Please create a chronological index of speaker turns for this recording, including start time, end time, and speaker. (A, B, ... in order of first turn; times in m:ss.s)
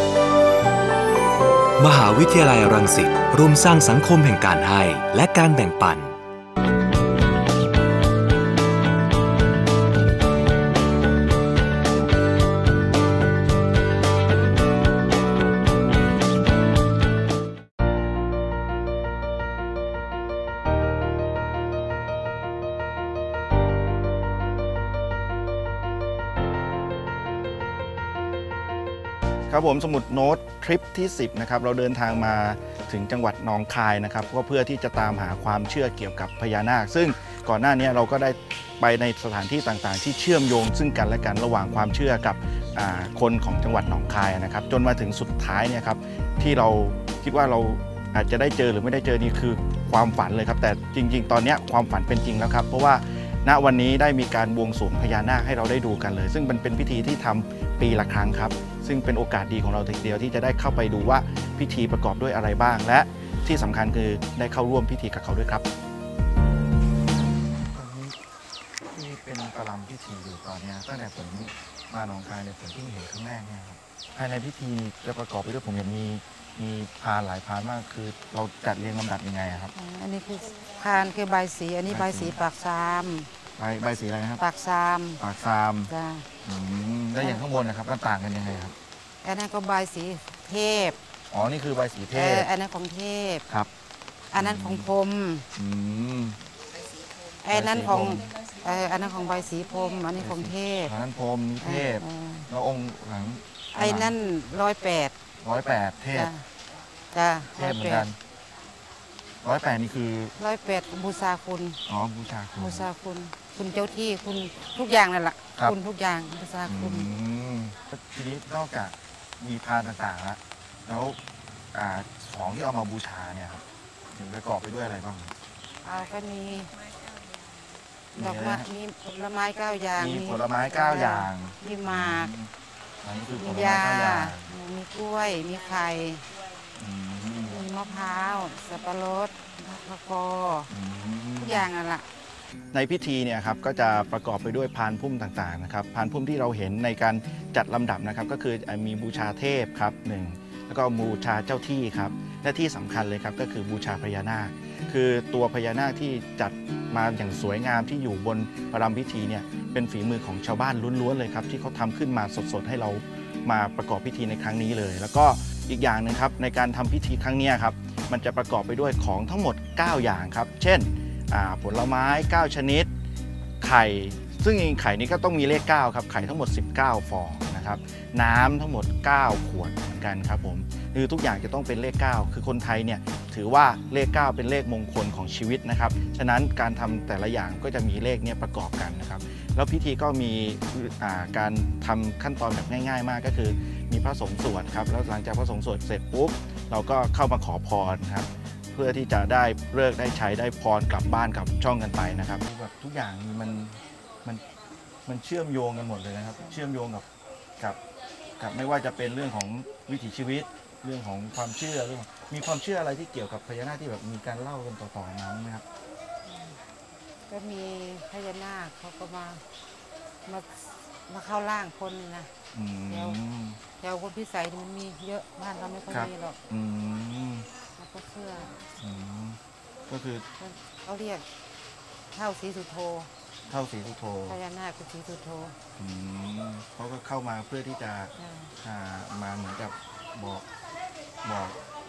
0:01.8-0:06.1 A
0:29.5-1:05.7 B
1:07.0-1:08.2 B
1:08.9-1:19.7 B
1:19.7-1:23.3 C
1:21.9-1:22.4 B
1:23.6-1:24.4 B
1:24.4-1:25.2 C
1:25.2-1:25.9 B
1:25.9-1:26.3 C
1:26.4-1:28.8 B
1:29.2-1:31.0 C
1:31.3-1:32.5 B
1:32.1-1:33.4 C
1:34.3-1:35.5 C
1:34.4-1:34.9 B
1:35.6-1:36.4 B
1:37.4-1:41.0 C
1:37.5-1:38.3 B
1:40.2-1:44.2 B
1:41.6-1:42.5 C
1:43.7-1:45.2 C
1:45.4-1:46.3 B
1:46.1-1:46.4 C
1:47.1-1:48.1 C
1:47.6-1:48.2 B
1:49.4-1:50.4 B
1:50.4-1:51.8 C
1:51.9-1:52.9 B
1:52.6-1:57.1 C
1:56.7-2:01.2 B
2:01.7-2:05.4 B
2:05.8-2:06.7 C
2:08.2-2:08.7 B
2:08.2-2:12.3 C
2:10.0-2:12.5 B
2:13.0-2:14.5 B
2:13.4-2:16.3 C
2:16.8-2:17.6 B
2:17.5-2:20.7 C
2:20.7-2:21.7 B
2:21.4-2:22.1 C
2:22.7-2:52.9 B
2:53.6-3:24.4 B
3:25.1-3:27.1 B
3:28.4-3:35.6 B
3:36.2-3:36.6 C
3:37.3-3:39.4 C
3:40.3-3:42.3 C
3:42.5-3:43.6 B
3:42.9-3:43.2 C
3:43.8-3:46.4 C
3:45.9-3:47.5 B
3:47.8-3:48.6 C
3:48.8-3:50.3 B
3:50.4-3:51.2 C
3:52.1-3:53.1 C
3:53.5-3:54.4 B
3:54.3-3:55.6 C
3:55.8-4:00.5 B
3:58.2-3:58.5 C
4:01.2-4:01.6 B